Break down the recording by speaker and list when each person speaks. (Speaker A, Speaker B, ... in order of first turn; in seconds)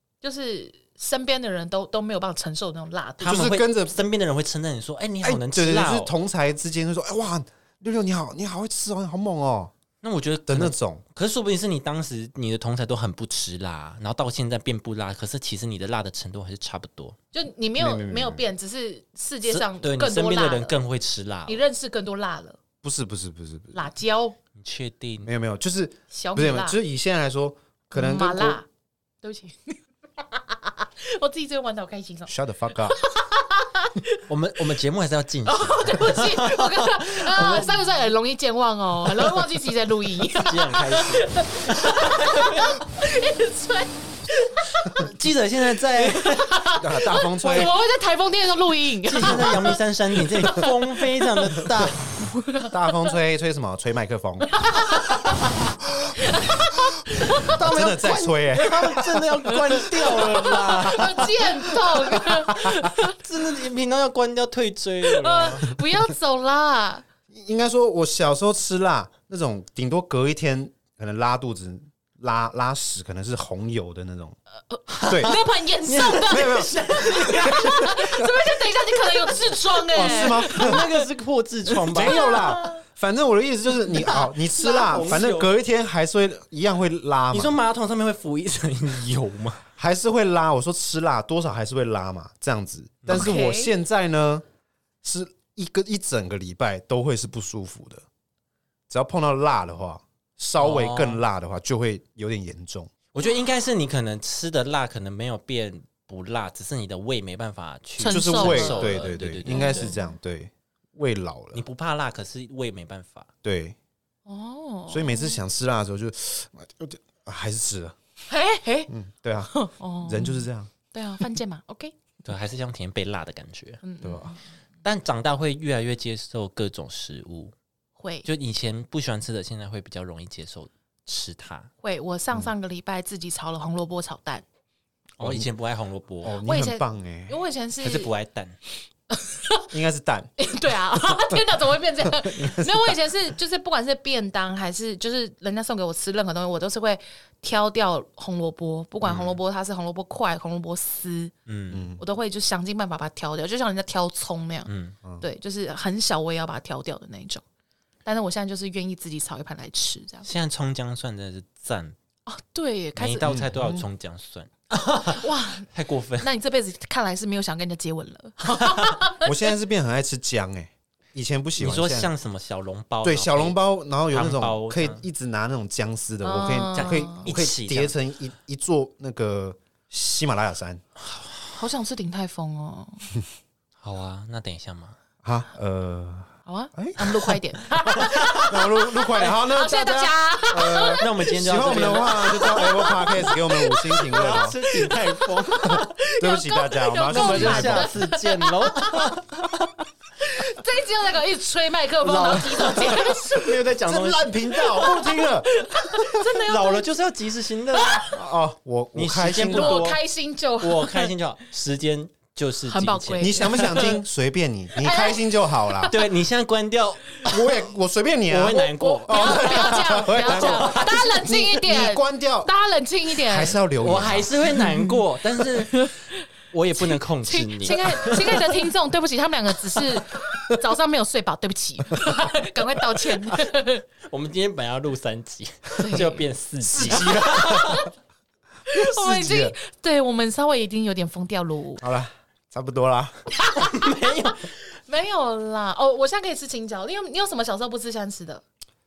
Speaker A: 0.2-3.5, 17.3-20.8, 21.5-22.6, 23.7-24.4, 26.1-26.8, 27.9-28.7, 29.2-34.2, 35.5-45.1, 46.0-52.8, 54.5-55.4, 56.2-57.6, 59.5-63.2, 65.0-67.0, 74.7-81.1, 81.7-82.8, 83.9-85.1, 93.1-93.8, 108.0-110.2, 114.3-115.4, 118.3-118.9, 119.5-121.9, 123.8-124.4, 128.0-128.3, 131.8-134.4, 136.4-138.1, 139.1-139.7, 140.4-151.3, 152.0-157.4, 158.1-160.3, 162.3-163.4, 165.0-165.7, 166.2-169.6, 176.2-177.3, 181.6-183.1, 186.5-194.0, 194.7-199.5, 200.2-203.7, 204.5-206.9, 207.8-208.1, 209.5-211.1, 212.7-214.0, 214.8-216.0, 218.5-223.6, 224.6-225.0, 225.6-226.2, 226.8-233.8, 235.8-236.2, 237.3-237.8, 238.7-241.8, 243.4-248.4
Speaker B: 3.2-6.2, 10.0-17.2, 19.5-21.6, 24.6-25.3, 34.3-37.9, 40.3-42.8, 44.8-46.8, 49.0-52.0, 57.4-61.5, 62.9-65.8, 74.9-78.0, 79.9-82.6, 84.0-85.5, 87.3-89.6, 93.0-93.3, 100.6-101.2, 103.1-109.9, 111.5-113.3, 122.2-123.8, 124.8-127.5, 128.2-131.7, 135.2-136.4, 137.8-138.6, 149.1-149.3, 151.5-151.9, 154.7-155.0, 160.2-162.0, 163.0-166.3, 171.6-175.0, 176.7-177.9, 181.0-181.6, 183.8-185.0, 188.0-188.4, 190.7-193.0, 194.0-195.9, 197.1-199.7, 202.0-205.1, 206.2-208.2, 208.9-210.0, 210.6-213.9, 215.9-217.7, 218.3-221.3, 223.8-225.9, 226.5-228.7, 234.1-237.8, 243.5-244.5
Speaker C: 3.2-4.0, 5.2-9.7, 10.5-11.0, 17.8-18.4, 22.8-23.8, 25.2-28.6, 32.3-33.0, 46.8-47.7, 52.7-54.9, 55.9-56.1, 57.2-60.6, 61.9-62.9, 67.3-74.4, 75.1-75.4, 75.9-76.8, 77.3-78.3, 79.9-80.9, 81.9-87.6, 89.8-94.4, 95.0-98.0, 98.9-102.9, 108.1-111.6, 113.4-113.8, 114.9-118.0, 118.9-120.7, 124.0-124.3, 135.2-135.5, 136.2-137.4, 139.7-140.3, 142.2-142.7, 151.7-152.0, 163.2-163.9, 169.2-172.1, 173.0-180.8, 185.2-194.6, 195.6-198.0, 203.7-206.2, 208.1-209.9, 213.2-215.9, 217.2-222.5, 223.2-224.3, 236.6-237.8, 238.7-239.6, 241.8-243.2